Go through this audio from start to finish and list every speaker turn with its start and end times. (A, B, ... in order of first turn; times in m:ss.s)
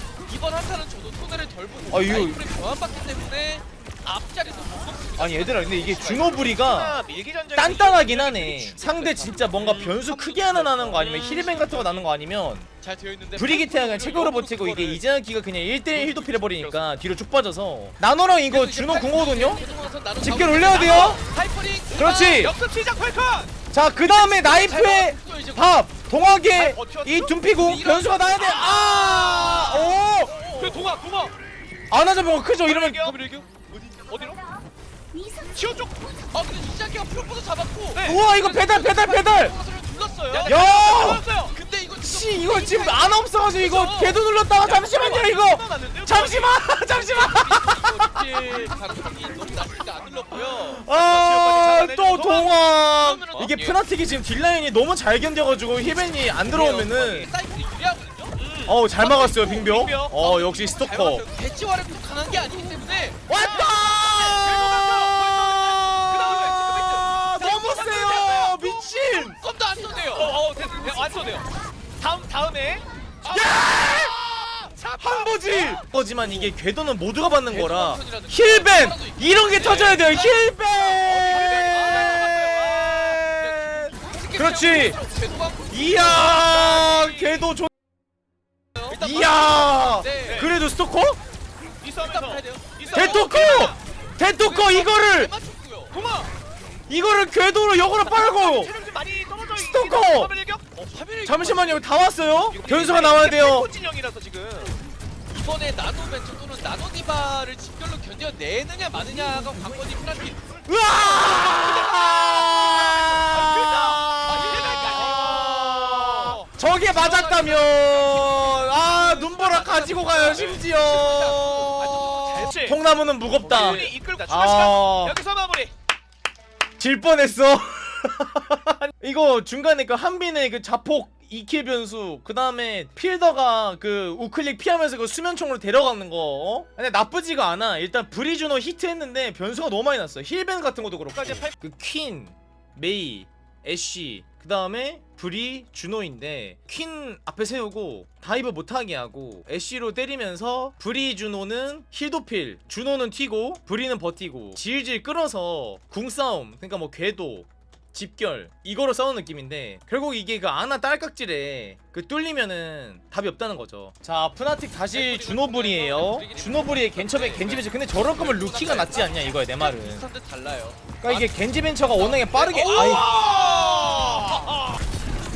0:00.2-0:06.5 A
0:01.9-0:02.4 B
0:05.2-0:07.0 B
0:06.2-0:09.1 C
0:07.6-0:12.7 B
0:08.8-0:12.1 A
0:12.8-0:15.0 A
0:13.4-0:19.6 B
0:15.9-0:16.8 C
0:16.3-0:16.8 A
0:18.5-0:22.5 A
0:20.2-0:21.2 B
0:20.7-0:21.2 C
0:22.0-0:22.6 B
0:22.2-0:23.5 C
0:23.7-0:30.3 B
0:24.0-0:25.7 A
0:26.5-0:27.4 C
0:27.6-0:30.9 A
0:30.5-0:31.3 C
0:31.9-0:33.1 B
0:32.6-0:33.2 C
0:33.0-0:34.3 A
0:33.9-0:34.4 C
0:35.3-0:36.1 C
0:36.3-0:44.6 A
0:37.9-0:38.2 C
0:38.0-0:39.6 B
0:40.3-0:41.6 C
0:40.5-0:41.3 B
0:42.0-0:48.1 B
0:44.7-0:46.6 C
0:46.9-0:51.0 A
0:50.4-0:57.3 B
0:50.9-0:52.6 C
0:53.0-0:53.8 A
0:56.4-0:58.4 A
0:58.4-1:00.2 C
0:58.7-1:01.2 B
1:00.2-1:03.2 A
1:03.3-1:09.4 B
1:03.3-1:08.6 C
1:05.0-1:06.8 A
1:07.4-1:08.5 A
1:09.4-1:10.4 A
1:10.1-1:13.5 C
1:13.2-1:15.7 A
1:13.3-1:14.2 B
1:14.6-1:15.1 C
1:15.0-1:25.0 B
1:17.5-1:26.1 A
1:21.0-1:22.5 C
1:25.7-1:27.7 B
1:26.0-1:27.4 C
1:28.8-1:30.5 A
1:28.9-1:31.2 B
1:30.2-1:30.5 C
1:31.8-1:33.8 C
1:32.0-1:33.2 A
1:32.9-1:35.3 B
1:34.3-1:36.0 A
1:35.9-1:36.3 C
1:36.9-1:38.7 B
1:38.0-1:40.7 C
1:39.5-1:40.3 B
1:40.7-1:41.9 A
1:41.3-1:43.7 B
1:42.5-1:44.8 C
1:45.3-1:50.6 A
1:50.6-2:05.2 B
1:50.9-1:56.5 C
1:54.3-1:55.5 A
1:56.8-2:02.8 A
2:02.2-2:02.8 C
2:03.4-2:05.7 C
2:03.4-2:03.9 A
2:06.8-2:50.1 B
2:21.1-2:21.6 C
2:44.9-2:54.5 A
2:51.0-2:53.1 B
2:52.6-2:54.8 C